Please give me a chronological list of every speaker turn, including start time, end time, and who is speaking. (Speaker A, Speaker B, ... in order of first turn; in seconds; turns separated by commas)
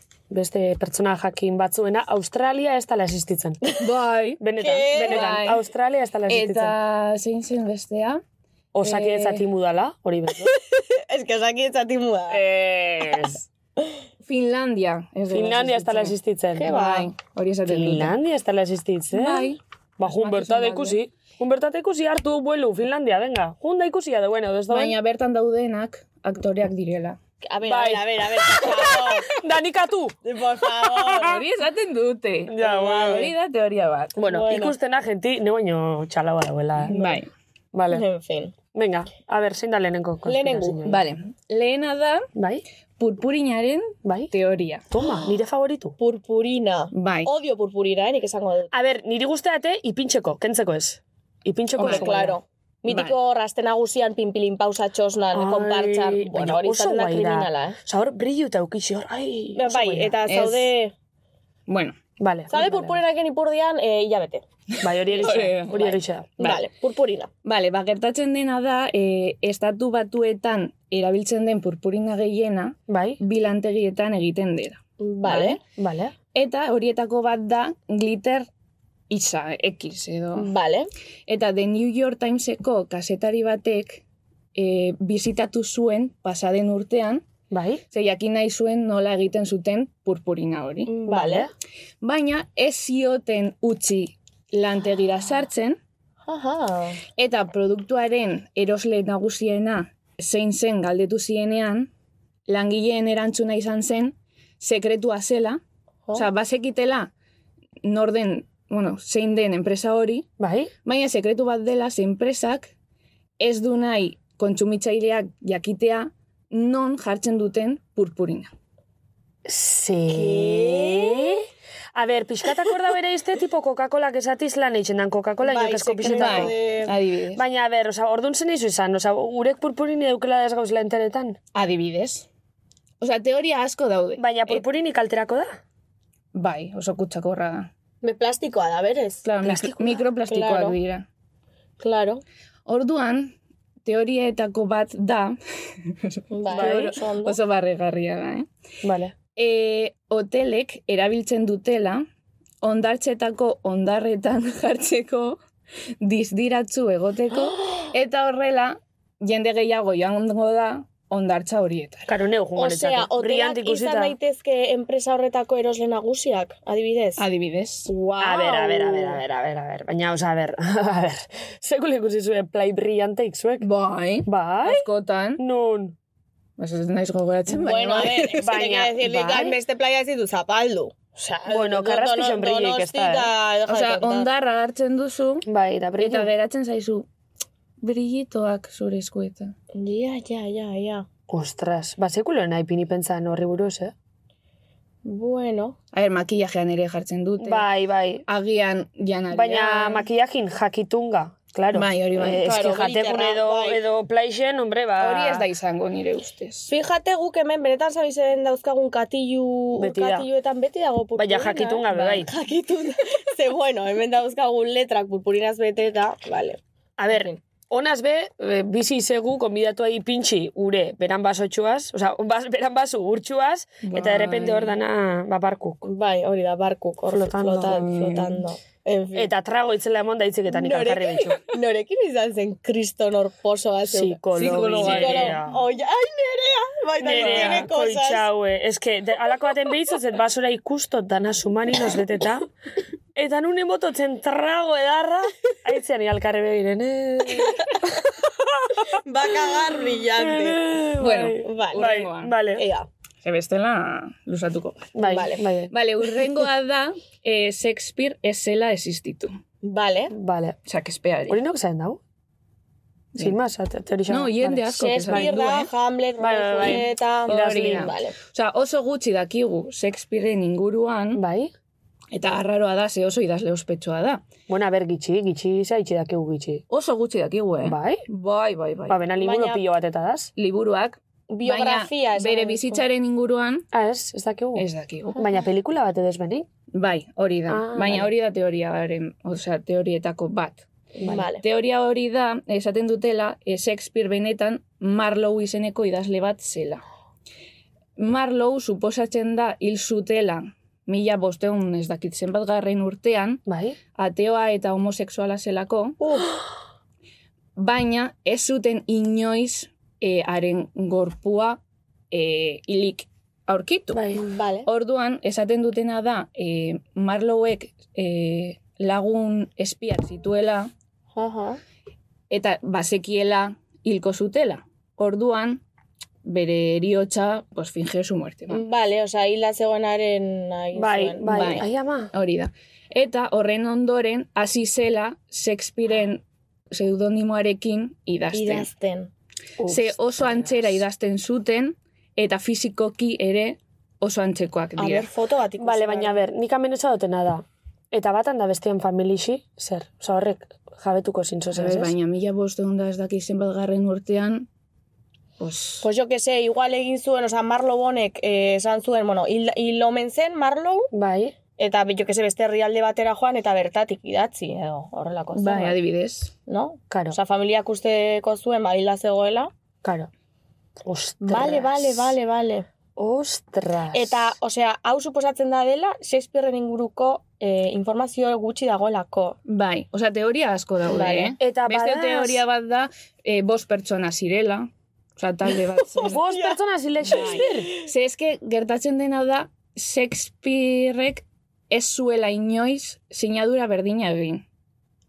Speaker A: 0.3-3.6, Speaker B: 3.8-4.4, Speaker A: 4.4-6.8, Speaker C: 4.6-5.4, Speaker B: 4.9-5.6, Speaker B: 6.3-8.2, Speaker A: 8.7-10.6, Speaker B: 8.8-9.4, Speaker C: 10.5-12.4, Speaker A: 12.3-13.4, Speaker B: 14.2-18.1, Speaker A: 15.3-16.8, Speaker C: 16.6-17.1, Speaker A: 17.6-24.9, Speaker B: 19.1-21.0, Speaker B: 24.7-27.2, Speaker C: 27.4-29.3, Speaker A: 27.6-31.3, Speaker C: 30.2-31.4, Speaker B: 31.2-34.1, Speaker A: 32.5-33.3, Speaker C: 32.6-33.3, Speaker C: 34.2-34.8, Speaker A: 34.2-37.0, Speaker B: 36.9-37.3, Speaker C: 36.9-37.2, Speaker A: 37.7-38.0, Speaker C: 37.9-38.5, Speaker A: 38.7-41.0, Speaker C: 40.2-40.9, Speaker B: 40.9-42.3, Speaker A: 42.4-42.6, Speaker B: 43.0-44.8, Speaker A: 44.0-44.3, Speaker A: 44.9-46.0, Speaker C: 46.0-48.7, Speaker B: 46.9-47.3, Speaker A: 48.7-52.4, Speaker B: 51.8-52.1, Speaker C: 51.8-57.8, Speaker B: 52.9-53.1, Speaker A: 55.3-60.2, Speaker C: 59.5-60.9, Speaker B: 60.3-60.7, Speaker B: 61.7-62.0, Speaker A: 62.2-63.0, Speaker C: 62.5-64.4, Speaker B: 64.8-65.7, Speaker A: 64.8-66.6, Speaker C: 65.2-67.3, Speaker B: 67.4-75.6, Speaker A: 72.9-73.2, Speaker C: 75.0-75.6, Speaker A: 75.8-76.1, Speaker B: 76.3-78.5, Speaker B: 79.1-80.5, Speaker C: 80.3-80.9, Speaker B: 81.3-84.0, Speaker B: 84.5-87.2, Speaker A: 87.5-87.8, Speaker B: 87.9-90.9, Speaker C: 90.8-91.5, Speaker A: 91.1-91.5, Speaker B: 92.0-95.8, Speaker C: 96.2-97.0, Speaker B: 97.2-101.9, Speaker B: 102.5-105.6, Speaker B: 106.1-107.1, Speaker B: 107.8-110.3, Speaker A: 110.4-110.7, Speaker B: 110.8-112.7, Speaker B: 113.4-118.5, Speaker A: 119.4-126.6, Speaker C: 120.1-121.4, Speaker C: 125.4-126.9, Speaker B: 126.0-127.4, Speaker A: 127.3-131.4, Speaker B: 131.5-132.3, Speaker B: 133.0-134.6, Speaker A: 134.2-135.6, Speaker B: 136.3-137.7, Speaker C: 138.0-139.2, Speaker B: 139.2-141.1, Speaker A: 139.4-140.0, Speaker C: 140.3-140.8, Speaker C: 141.8-142.2, Speaker B: 142.7-145.4, Speaker B: 145.9-148.5, Speaker C: 146.3-147.4, Speaker A: 146.5-146.9, Speaker A: 148.8-149.1, Speaker B: 149.3-152.1, Speaker B: 152.6-155.4, Speaker B: 156.0-162.1, Speaker A: 162.1-164.2, Speaker C: 162.6-167.2, Speaker B: 167.2-167.9, Speaker C: 167.9-169.2, Speaker A: 168.2-173.7, Speaker B: 173.6-175.4, Speaker A: 174.2-175.9, Speaker B: 176.6-178.4, Speaker C: 177.5-184.3, Speaker A: 178.4-179.6, Speaker A: 181.4-183.3, Speaker B: 183.7-185.4, Speaker A: 185.4-186.3, Speaker B: 186.0-187.1, Speaker B: 187.8-189.5, Speaker C: 189.7-191.1, Speaker A: 191.3-193.9, Speaker C: 195.0-195.8, Speaker B: 195.9-197.6, Speaker A: 197.4-198.2, Speaker B: 198.3-200.0, Speaker A: 199.3-205.5, Speaker B: 201.7-202.5, Speaker C: 202.4-203.8, Speaker B: 205.0-206.7, Speaker C: 206.7-217.4, Speaker A: 209.8-210.3, Speaker A: 211.2-212.3, Speaker A: 217.0-225.8, Speaker B: 223.8-224.7, Speaker C: 225.8-229.3, Speaker A: 227.1-227.8, Speaker B: 227.7-228.4, Speaker A: 229.1-231.4, Speaker C: 230.5-238.3, Speaker A: 233.9-235.6, Speaker B: 234.3-235.4, Speaker A: 237.0-242.5, Speaker B: 237.0-237.7, Speaker A: 243.2-252.6, Speaker C: 248.9-250.6, Speaker B: 251.0-252.3, Speaker C: 251.4-251.9, Speaker C: 252.5-252.9, Speaker B: 253.2-254.9, Speaker A: 254.9-255.7, Speaker C: 255.0-255.5, Speaker B: 255.7-259.3, Speaker C: 259.6-260.1, Speaker A: 260.1-260.6, Speaker B: 260.7-261.4, Speaker A: 261.3-262.0, Speaker A: 263.2-265.4, Speaker B: 264.1-265.7, Speaker C: 264.7-268.1, Speaker A: 266.2-267.9, Speaker B: 267.3-271.2, Speaker A: 271.1-271.5, Speaker B: 272.1-274.2, Speaker A: 274.5-276.6, Speaker B: 276.7-279.0, Speaker A: 277.6-278.0, Speaker A: 278.9-280.3, Speaker C: 279.2-279.6, Speaker B: 280.4-283.6, Speaker C: 281.3-282.8, Speaker A: 283.7-286.5, Speaker B: 284.6-285.2, Speaker B: 286.7-296.8, Speaker A: 287.5-288.1, Speaker C: 291.0-291.4, Speaker B: 298.0-303.4, Speaker A: 303.5-303.8, Speaker B: 303.9-306.0, Speaker C: 306.0-306.4, Speaker B: 307.6-311.6, Speaker B: 312.1-314.1, Speaker A: 313.9-314.2, Speaker C: 314.1-314.7, Speaker B: 314.6-320.7, Speaker C: 321.1-321.6, Speaker B: 322.3-325.6, Speaker B: 326.2-328.6, Speaker C: 328.5-331.6, Speaker A: 330.7-332.1, Speaker B: 331.3-338.7, Speaker C: 338.3-339.1, Speaker A: 339.6-340.8, Speaker B: 339.6-345.1, Speaker C: 344.8-346.2, Speaker A: 345.6-351.9, Speaker B: 351.5-354.5, Speaker B: 355.4-355.9, Speaker C: 355.8-360.9, Speaker A: 360.9-361.3, Speaker C: 361.6-365.8, Speaker B: 365.3-366.3, Speaker C: 366.5-369.5, Speaker A: 366.9-367.2, Speaker A: 369.8-370.1, Speaker A: 370.8-372.1, Speaker C: 371.2-372.7, Speaker A: 372.9-374.3, Speaker C: 373.9-379.4, Speaker B: 379.4-386.2, Speaker C: 380.9-381.4, Speaker A: 381.4-382.4, Speaker C: 386.0-386.6, Speaker A: 386.0-387.7, Speaker B: 387.1-394.4, Speaker C: 387.1-387.7